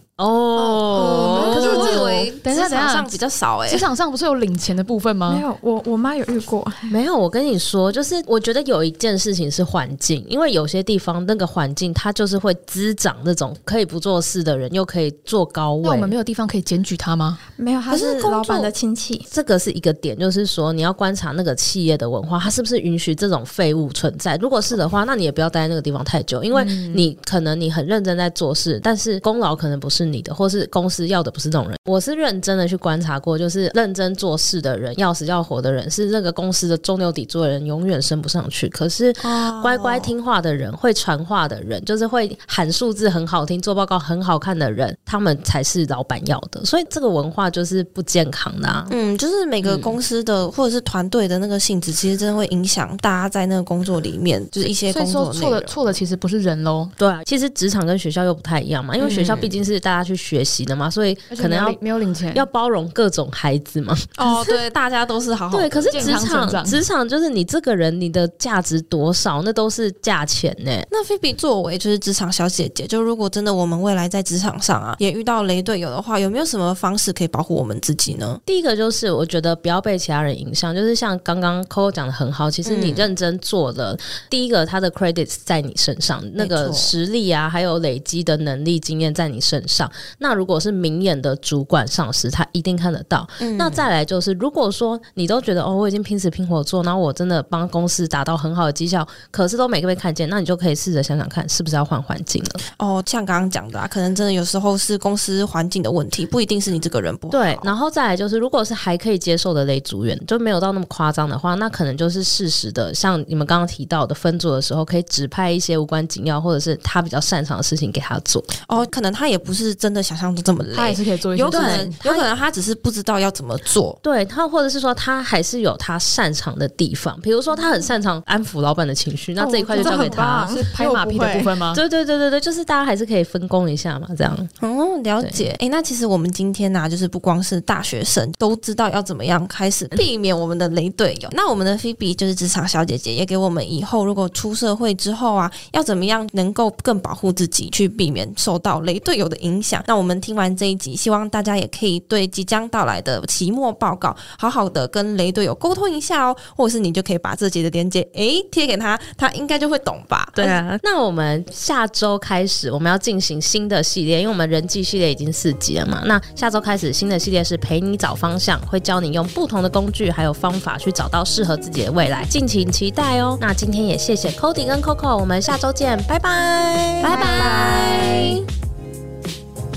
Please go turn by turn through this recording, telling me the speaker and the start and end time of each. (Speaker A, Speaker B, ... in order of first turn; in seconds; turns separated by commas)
Speaker A: 0.2-1.9, Speaker B: 0.6-3.9, Speaker C: 1.0-5.5, Speaker D: 1.0-2.2, Speaker D: 5.3-7.0, Speaker A: 6.9-16.1, Speaker C: 15.8-17.4, Speaker D: 17.6-19.3, Speaker B: 17.9-18.7, Speaker A: 19.3-49.0, Speaker C: 26.5-27.1, Speaker B: 39.2-40.1, Speaker B: 48.9-55.8, Speaker A: 49.6-50.0, Speaker C: 54.9-56.9, Speaker A: 57.0-61.8, Speaker B: 59.0-59.5, Speaker C: 61.3-62.5, Speaker A: 62.3-64.6, Speaker B: 64.2-66.2, Speaker A: 65.5-70.9, Speaker C: 65.9-66.8, Speaker B: 70.9-78.4, Speaker A: 78.5-102.6, Speaker B: 82.7-83.1, Speaker B: 86.4-86.9, Speaker B: 93.4-93.9, Speaker B: 102.8-107.7, Speaker A: 107.3-118.7, Speaker B: 118.7-124.0, Speaker C: 120.7-122.0, Speaker A: 121.5-122.3, Speaker A: 124.0-130.5, Speaker D: 129.4-131.5, Speaker C: 129.6-131.8, Speaker A: 131.7-134.5, Speaker B: 134.6-160.6, Speaker A: 135.2-135.5, Speaker A: 160.3-177.2, Speaker B: 177.0-178.4, Speaker D: 177.1-178.0, Speaker C: 177.1-177.9